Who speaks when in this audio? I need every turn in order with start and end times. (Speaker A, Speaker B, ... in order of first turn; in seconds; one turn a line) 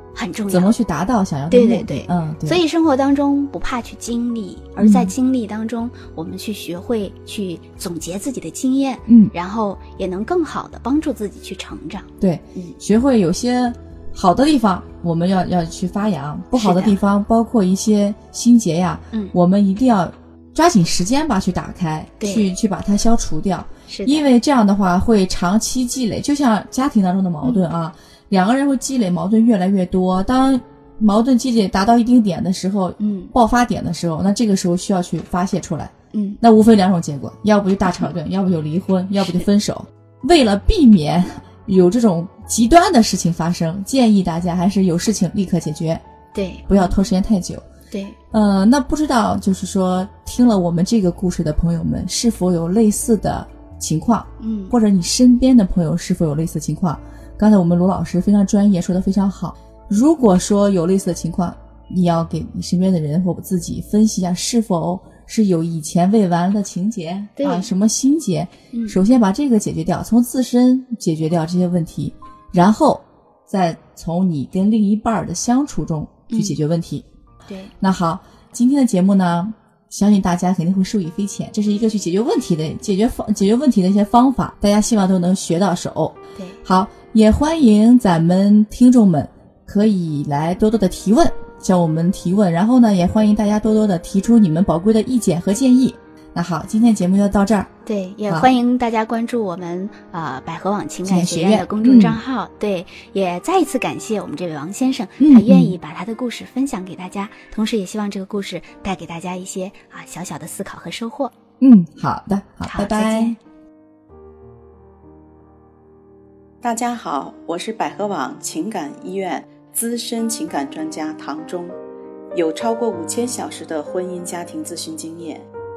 Speaker A: 0.1-0.7
Speaker B: 0.5-2.6
Speaker A: 1.5-12.8
Speaker B: 4.8-5.1
Speaker B: 9.1-9.3
Speaker B: 12.2-46.0
Speaker A: 16.6-16.9
Speaker A: 22.2-22.5
Speaker A: 23.9-24.2
Speaker A: 27.4-27.7
Speaker A: 33.0-33.3
Speaker A: 36.1-36.4
Speaker A: 46.3-46.9
Speaker B: 46.7-47.6
Speaker A: 47.9-48.2
Speaker B: 48.3-77.0
Speaker A: 54.4-54.7
Speaker A: 67.4-67.7
Speaker A: 68.7-69.0
Speaker A: 76.3-76.6
Speaker A: 77.5-77.7
Speaker B: 77.8-97.7
Speaker A: 97.8-111.3
Speaker B: 101.0-102.2
Speaker B: 105.2-105.8
Speaker B: 111.6-113.3
Speaker A: 112.6-113.4
Speaker C: 116.6-121.8
Speaker C: 122.3-125.5